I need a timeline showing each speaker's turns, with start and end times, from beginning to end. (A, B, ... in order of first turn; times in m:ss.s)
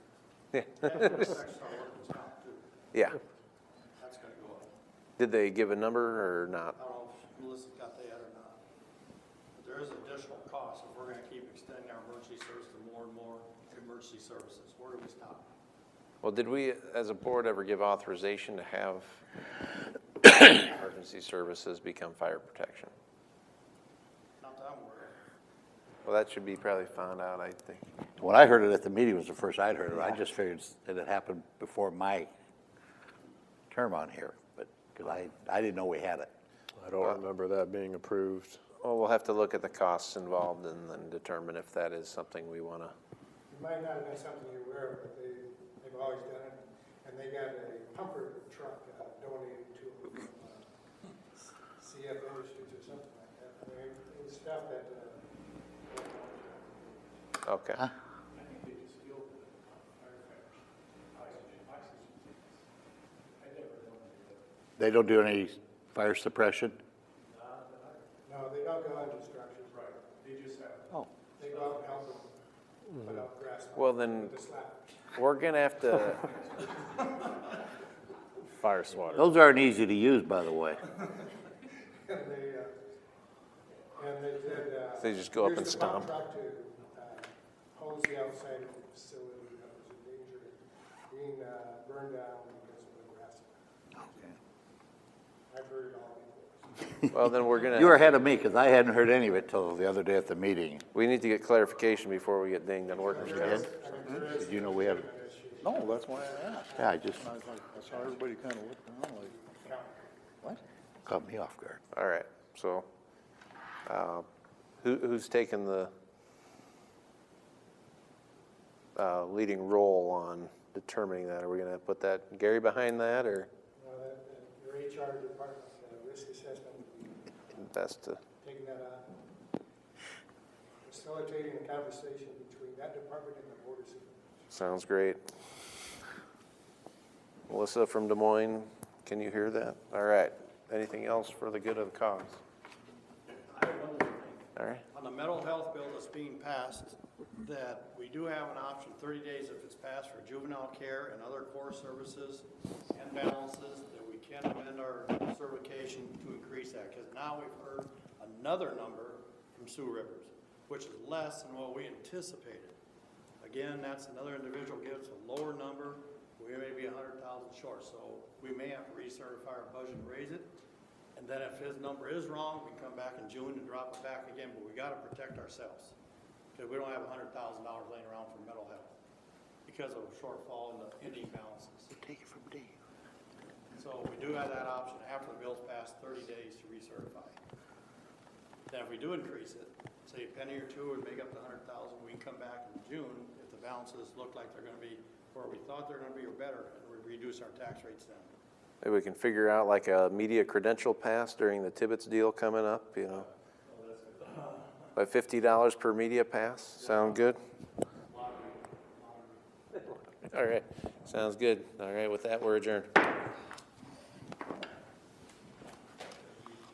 0:00.5-0:00.8 A
0:00.6-0:02.6 B
0:02.9-0:03.2 A
0:04.0-0:04.7 B
0:05.2-0:06.8 A
0:06.8-0:08.6 B
0:09.6-0:15.5 B
0:16.2-0:19.2 A
0:20.2-0:22.9 A
0:24.4-0:25.2 B
0:26.0-0:27.8 A
0:28.2-0:32.3 C
0:33.7-0:36.3 C
0:36.8-0:38.6 D
0:38.8-0:42.9 A
0:43.5-0:50.7 E
0:51.8-0:55.2 E
0:55.8-0:57.1 E
0:57.4-0:57.8 A
0:58.5-0:59.3 D
1:02.1-1:02.4 B
1:04.8-1:06.8 C
1:07.4-1:07.8 B
1:08.3-1:10.0 E
1:10.4-1:10.8 B
1:11.4-1:12.4 E
1:12.9-1:15.2 E
1:13.8-1:14.3 A
1:15.1-1:16.3 A
1:18.6-1:19.2 A
1:19.2-1:20.9 C
1:22.1-1:22.7 E
1:23.9-1:30.6 E
1:25.0-1:26.1 A
1:31.1-1:33.5 E
1:34.0-1:34.4 C
1:35.5-1:36.9 E
1:37.1-1:37.9 A
1:37.6-1:40.9 C
1:40.9-1:43.7 A
1:43.0-1:48.4 E
1:43.3-1:45.1 C
1:45.6-1:49.4 C
1:49.1-1:50.3 E
1:50.4-1:51.8 C
1:51.9-1:52.9 A
1:53.9-1:54.3 A
1:54.8-1:55.9 A
1:59.0-2:03.5 A
2:03.8-2:07.5 E
2:07.5-2:08.2 A
2:08.4-2:09.2 E
2:10.9-2:14.3 E
2:14.5-2:15.2 A
2:17.5-2:22.4 A
2:23.4-2:42.8 B
2:24.6-2:24.8 A
2:43.4-2:50.5 B
2:51.2-2:56.0 B
2:56.6-2:58.9 B
2:59.7-3:02.0 B
3:02.0-3:02.8 C
3:03.7-3:07.4 B
3:08.7-3:18.3 B
3:18.8-3:23.3 A
3:23.7-3:24.8 B
3:25.0-3:27.4 A
3:26.8-3:27.3 B
3:28.0-3:29.8 B
3:30.2-3:32.9 A